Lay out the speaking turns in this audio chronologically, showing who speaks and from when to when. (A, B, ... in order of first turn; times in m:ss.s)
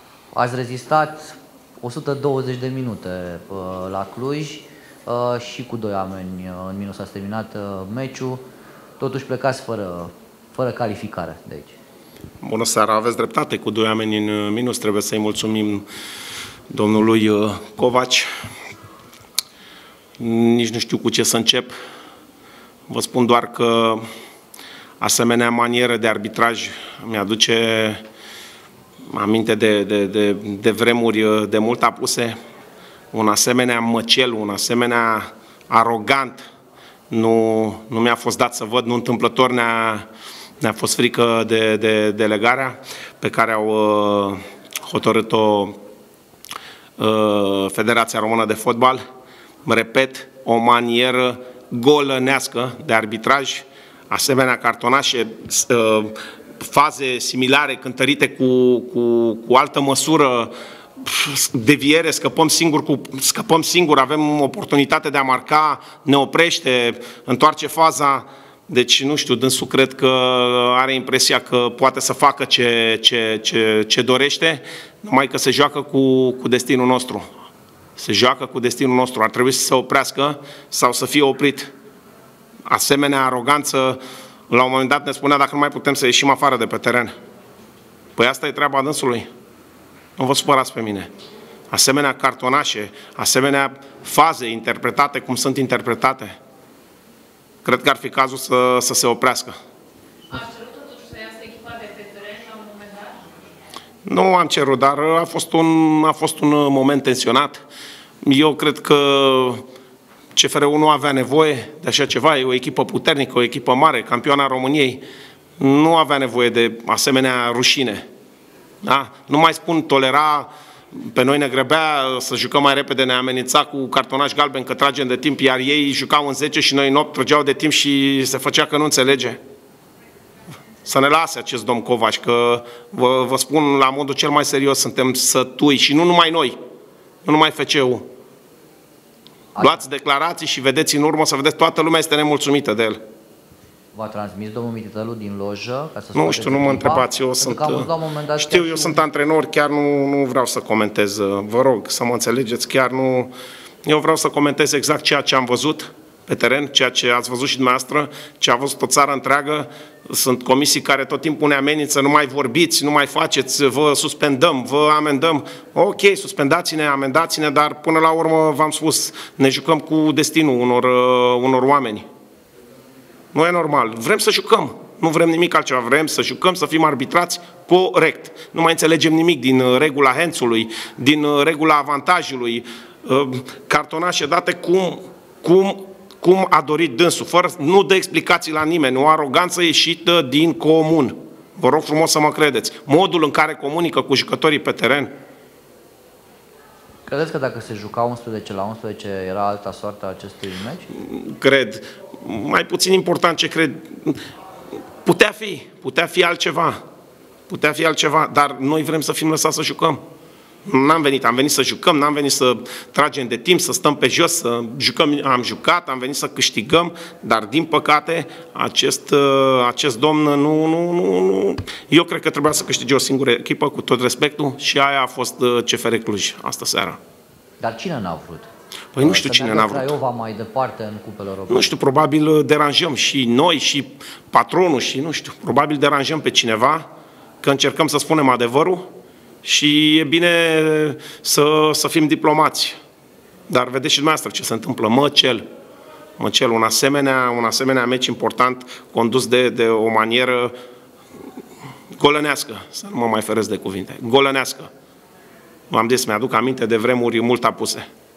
0:00.3-0:08.4 A
0:09.0-0:11.8 A
0:12.4-0:15.8 B
0:16.7-0:18.3 B
0:20.2-0:21.7 B
0:22.9-0:24.0 B
0:25.0-0:28.0 B
0:29.1-0:32.4 B
0:33.1-0:36.4 B
0:37.1-0:40.1 B
0:40.6-0:45.8 B
0:47.0-0:49.0 B
0:49.7-1:17.3 B
1:18.0-1:21.7 B
1:22.7-1:27.1 B
1:28.2-1:29.3 B
1:30.2-1:31.1 B
1:31.7-1:36.4 B
1:37.6-1:39.5 B
1:40.3-1:43.2 C
1:44.0-1:47.6 B
1:48.2-1:49.6 B
1:50.4-1:55.0 B
1:55.6-1:58.1 B
1:58.8-2:09.4 B
2:10.9-2:16.6 B
2:17.2-2:18.1 B
2:19.6-2:23.0 B
2:23.9-2:29.0 A
2:26.2-2:33.3 B
2:33.9-2:52.0 B
2:53.3-3:15.1 B
3:17.1-3:20.9 A
3:20.9-3:24.2 B
3:25.0-3:26.8 B
3:27.5-3:30.0 B
3:30.7-3:47.0 B
3:47.6-3:48.5 A
3:49.0-3:49.9 B
3:49.0-3:51.7 A
3:51.5-3:56.9 B
3:57.4-3:58.9 B
3:59.4-4:02.8 B
4:03.5-4:05.4 B
4:06.2-4:10.5 B
4:12.0-4:14.7 B
4:15.7-4:17.9 B